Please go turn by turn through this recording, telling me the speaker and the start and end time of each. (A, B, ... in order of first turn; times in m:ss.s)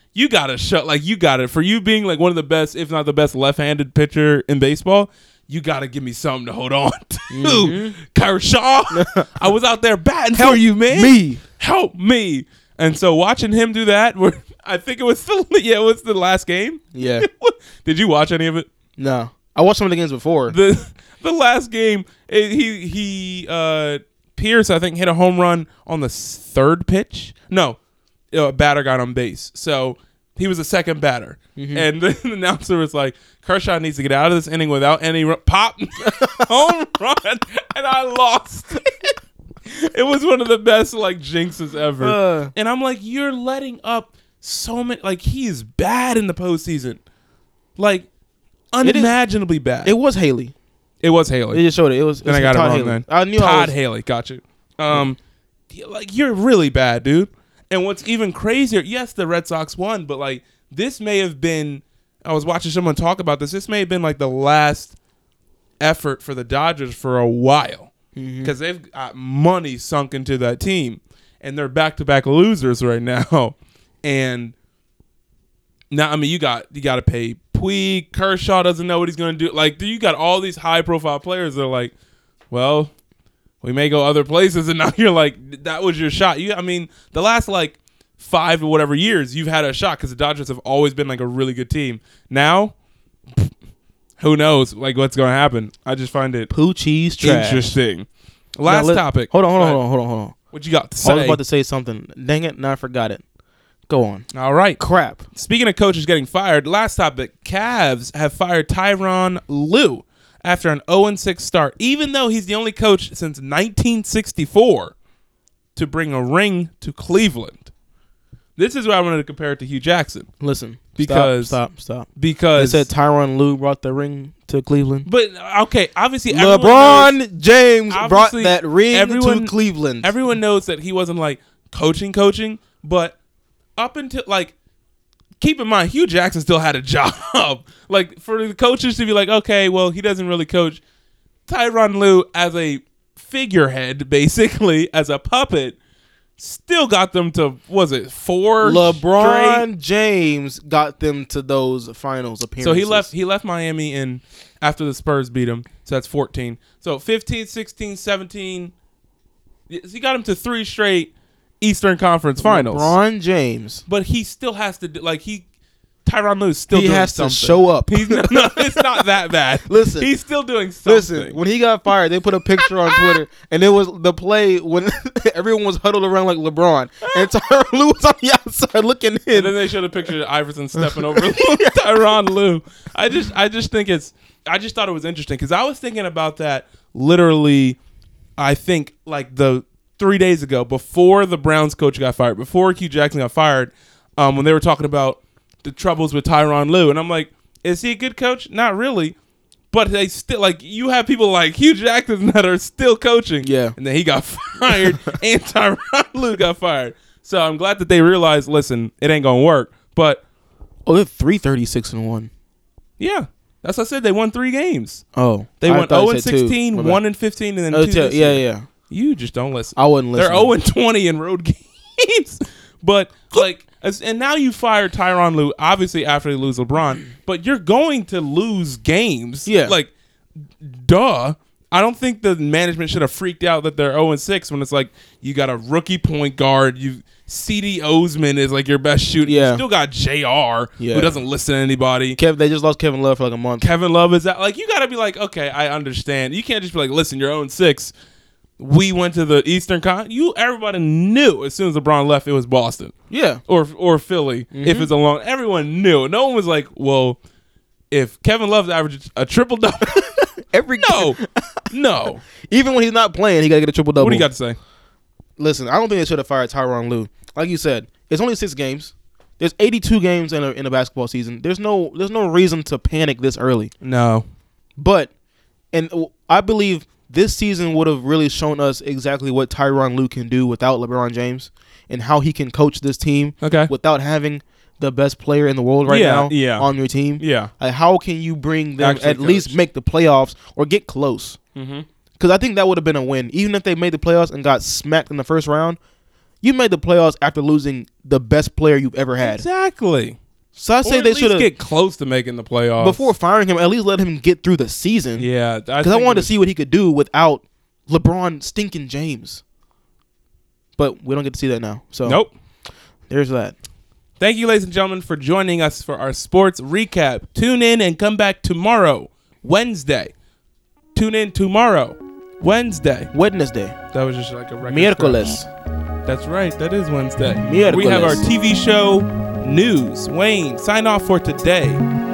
0:00.1-0:18.7 A
0:07.3-0:08.0 B
0:08.9-0:09.3 B
0:10.3-0:11.4 B
0:16.9-0:17.2 B
0:19.0-0:20.6 B
0:20.5-0:27.8 A
0:28.3-0:47.0 A
0:31.6-0:31.9 B
0:36.0-0:36.5 B
0:42.0-0:42.5 B
0:47.8-0:48.1 A
0:48.7-0:49.9 A
0:48.8-0:49.2 B
0:49.8-0:50.5 B
0:51.0-0:51.6 A
0:51.5-0:53.7 B
0:52.2-0:55.2 A
0:55.7-1:04.9 A
1:05.8-1:07.9 A
1:08.1-1:08.5 B
1:08.4-1:14.5 A
1:15.9-1:21.9 A
1:22.5-1:22.9 A
1:23.6-1:32.7 A
1:34.2-1:36.5 A
1:36.5-1:37.8 B
1:37.2-1:39.8 A
1:38.6-1:40.4 B
1:40.5-1:41.4 A
1:41.0-1:43.2 B
1:43.9-1:44.2 B
1:44.3-1:44.8 A
1:44.8-1:45.2 B
1:45.3-1:54.9 A
1:55.7-1:57.7 A
1:58.6-2:00.3 A
2:00.4-2:05.1 B
2:00.9-2:01.6 A
2:02.2-2:02.9 A
2:05.0-2:07.2 A
2:06.3-2:10.1 B
2:07.9-2:13.2 A
2:13.8-2:14.5 A
2:15.4-2:20.8 A
2:21.5-2:25.8 A
2:26.4-2:29.6 A
2:28.6-2:33.1 B
2:32.6-2:38.7 A
2:39.7-2:43.0 A
2:42.4-2:43.8 B
2:43.9-2:45.4 A
2:46.0-2:51.4 A
2:46.7-2:49.1 B
2:49.6-2:50.1 B
2:50.8-2:59.7 B
2:52.7-2:53.2 A
2:59.3-3:07.8 A
3:00.8-3:02.3 B
3:08.4-3:19.1 A
3:19.7-3:30.2 A
3:23.4-3:23.8 B
3:30.8-3:32.3 B
3:33.0-3:35.0 A
3:35.1-3:37.0 B
3:35.6-3:49.9 A
3:37.7-3:38.7 B
3:39.8-3:40.5 B
3:49.4-3:49.8 B
3:50.6-4:02.2 A
3:59.2-3:59.6 B
4:00.8-4:01.2 B
4:02.1-4:03.6 B
4:03.6-4:07.9 A
4:08.6-4:12.9 A
4:13.1-4:13.4 B
4:13.5-4:17.2 A
4:14.5-4:14.9 B
4:17.9-4:20.2 A
4:19.8-4:21.7 B
4:20.8-4:21.2 A
4:21.7-4:22.2 A
4:22.3-4:24.3 B
4:24.0-4:24.6 A
4:25.4-4:33.7 B
4:33.8-4:34.2 A
4:34.8-4:35.1 B
4:35.7-4:51.4 B
4:43.4-4:43.7 A
4:45.9-4:46.7 A
4:47.2-4:47.5 A
4:48.8-4:49.6 A
4:51.6-4:51.8 A
4:52.2-4:55.8 B
4:56.4-4:59.4 B
4:59.2-5:00.2 A
5:00.5-5:01.5 B
5:00.8-5:03.1 A
5:02.8-5:05.3 B
5:05.2-5:06.3 A
5:05.8-5:09.4 B
5:10.8-5:12.2 B
5:12.0-5:12.3 A
5:13.1-5:13.6 B
5:14.2-5:20.1 A
5:20.9-5:23.1 A
5:23.1-5:23.8 B
5:23.9-5:25.4 A
5:24.7-5:25.5 B
5:26.0-5:31.8 A
5:27.4-5:28.2 B